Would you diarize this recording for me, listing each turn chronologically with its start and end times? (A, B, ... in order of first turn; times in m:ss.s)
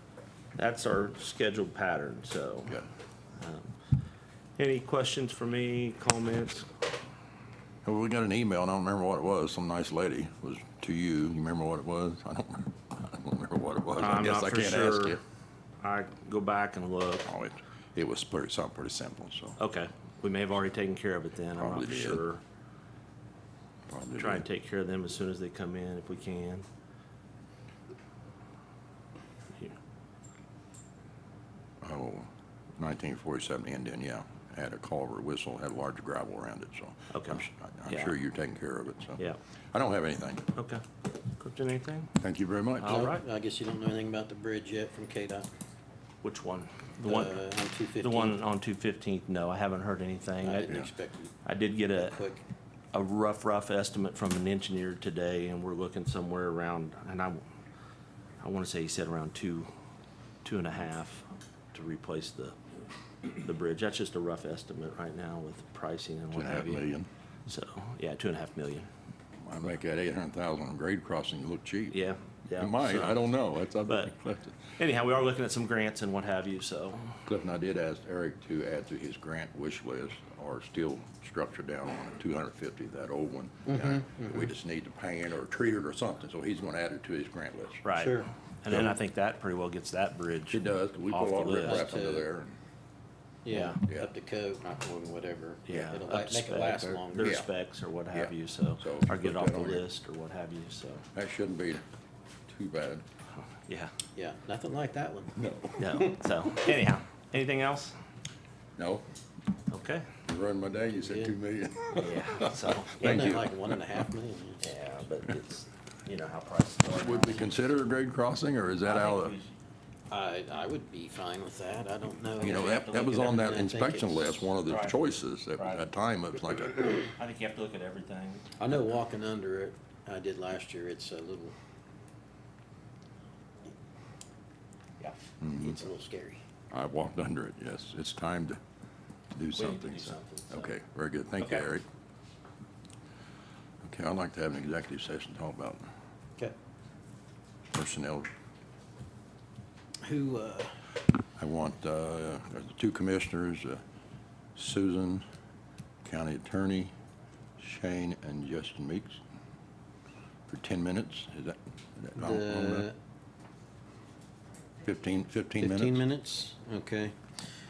0:00.6-0:02.8 A
0:03.4-0:03.7 A
0:04.6-0:06.7 A
0:07.8-0:15.2 B
0:14.0-0:15.2 A
0:15.8-0:17.3 A
0:17.2-0:19.6 B
0:19.6-0:22.4 A
0:21.6-0:22.2 B
0:23.9-0:24.4 B
0:24.1-0:26.6 A
0:31.8-0:40.5 B
0:37.1-0:38.1 A
0:40.5-0:42.1 A
0:42.2-0:43.0 B
0:42.8-0:43.2 A
0:42.9-0:45.5 C
0:46.2-0:47.4 A
0:47.0-0:48.4 C
0:48.0-0:50.8 A
0:50.4-0:51.4 C
0:51.4-0:52.2 A
0:51.9-0:52.4 C
0:52.9-0:57.4 A
0:58.4-0:59.7 A
1:00.4-1:02.6 A
1:03.2-1:06.9 A
1:06.3-1:07.1 B
1:07.5-1:08.9 A
1:09.4-1:12.0 B
1:11.9-1:13.3 A
1:12.5-1:14.8 B
1:13.8-1:14.1 A
1:14.8-1:17.2 A
1:17.2-1:27.8 B
1:23.7-1:24.3 C
1:27.8-1:31.8 A
1:28.0-1:28.3 C
1:30.5-1:32.5 B
1:31.6-1:32.2 C
1:33.4-1:37.4 C
1:33.5-1:33.8 A
1:35.7-1:41.0 A
1:37.2-1:37.4 B
1:38.1-1:39.9 B
1:41.1-1:41.8 B
1:42.5-1:43.0 B
1:43.6-1:43.9 A
1:44.2-1:45.3 C
1:45.4-1:46.0 B
1:45.8-1:47.9 A
1:48.8-1:49.0 B
1:49.7-1:50.1 A
1:50.2-1:53.5 B
1:51.0-1:51.3 C
1:52.0-1:53.4 A
1:53.0-1:54.6 C
1:54.6-1:57.6 A
1:56.9-1:59.3 B
1:58.8-1:59.5 A
2:00.1-2:04.3 C
2:02.4-2:03.5 A
2:02.4-2:07.1 B
2:04.7-2:05.8 A
2:07.0-2:08.5 A
2:08.6-2:11.5 C
2:15.4-2:15.8 B
2:15.6-2:16.4 C
2:16.7-2:18.6 B
2:19.3-2:21.8 B
2:19.5-2:20.7 A
2:23.8-2:25.8 B
2:27.7-2:28.3 B
2:30.0-2:30.7 C
2:31.4-2:33.8 B
2:34.5-2:35.2 B
2:36.0-2:36.9 B
2:37.6-2:39.2 B
2:40.5-2:42.9 B
2:42.2-2:42.9 C
2:44.8-2:46.0 B
2:45.6-2:47.1 C